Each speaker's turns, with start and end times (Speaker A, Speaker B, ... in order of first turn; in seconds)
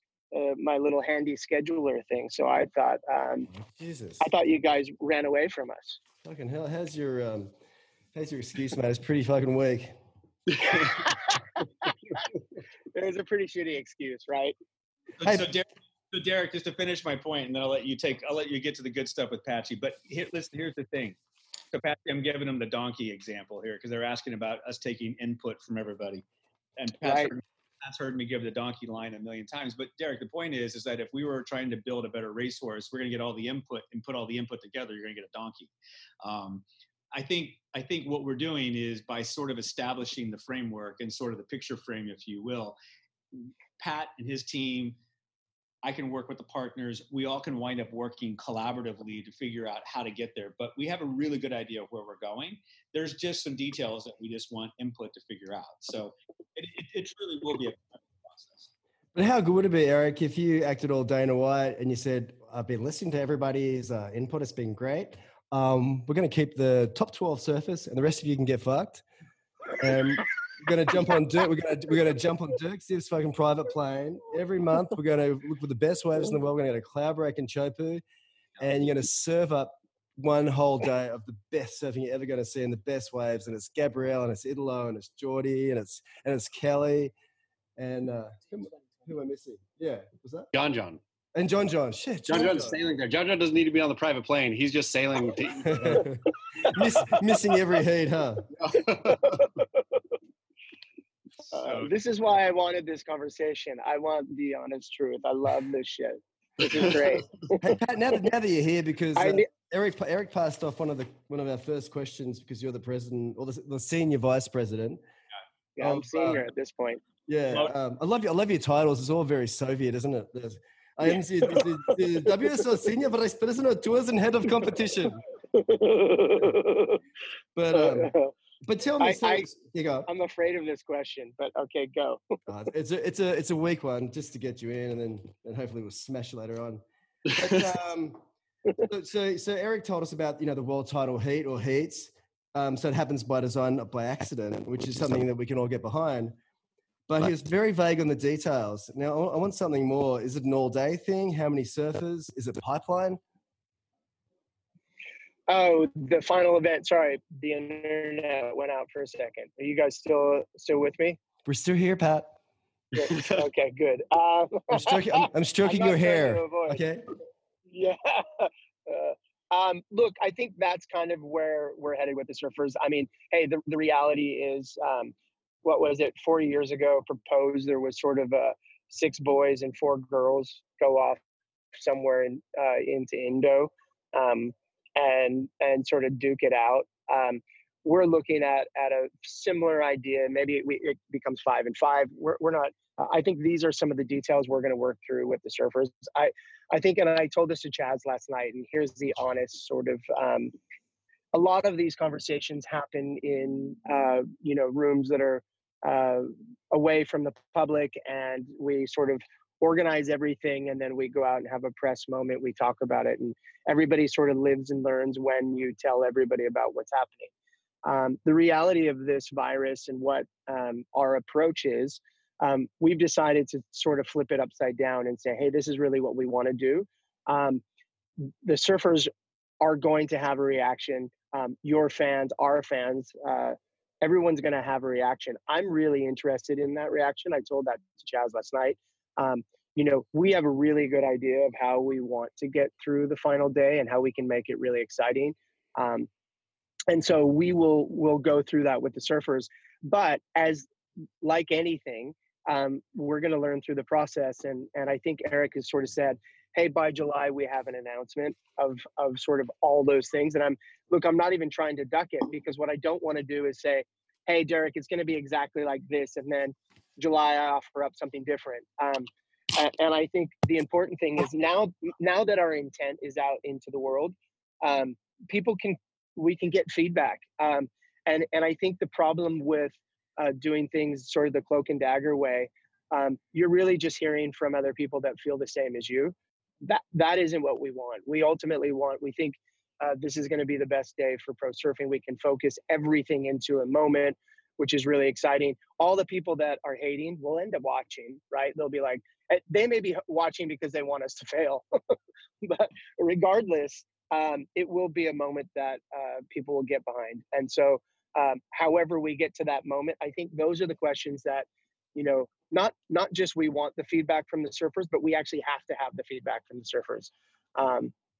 Speaker A: 0.3-3.5, 4.2-6.0, 12.9-14.5, 27.0-27.3, 99.0-99.5, 101.5-107.6, 109.2-109.5, 115.8-117.0, 125.5-127.0, 127.7-128.3, 129.0-129.5, 130.1-132.2, 155.5-161.2, 162.9-166.8, 167.7-181.2, 181.8-200.5, 201.3-217.3, 217.8-227.6, 228.4-229.1, 229.6-246.1, 246.9-250.7, 251.2-301.6, 302.4-317.9
Speaker B: 3.6-4.3, 6.2-7.5, 8.1-9.9, 59.1-69.0, 69.8-78.0, 78.6-87.1, 87.8-90.5, 91.3-92.8, 95.7-98.5, 107.6-115.0, 115.8-116.4, 117.3-125.2, 127.5-130.1, 132.5-138.2, 138.8-146.4, 147.1-153.2, 161.4-162.3, 164.7-167.1
Speaker C: 10.5-11.0, 90.5-91.0, 92.3-96.1, 98.6-99.4, 163.0-163.3
Speaker D: 15.2-21.2, 21.7-26.2, 26.8-42.8, 43.3-45.0, 45.8-58.7, 101.5-101.9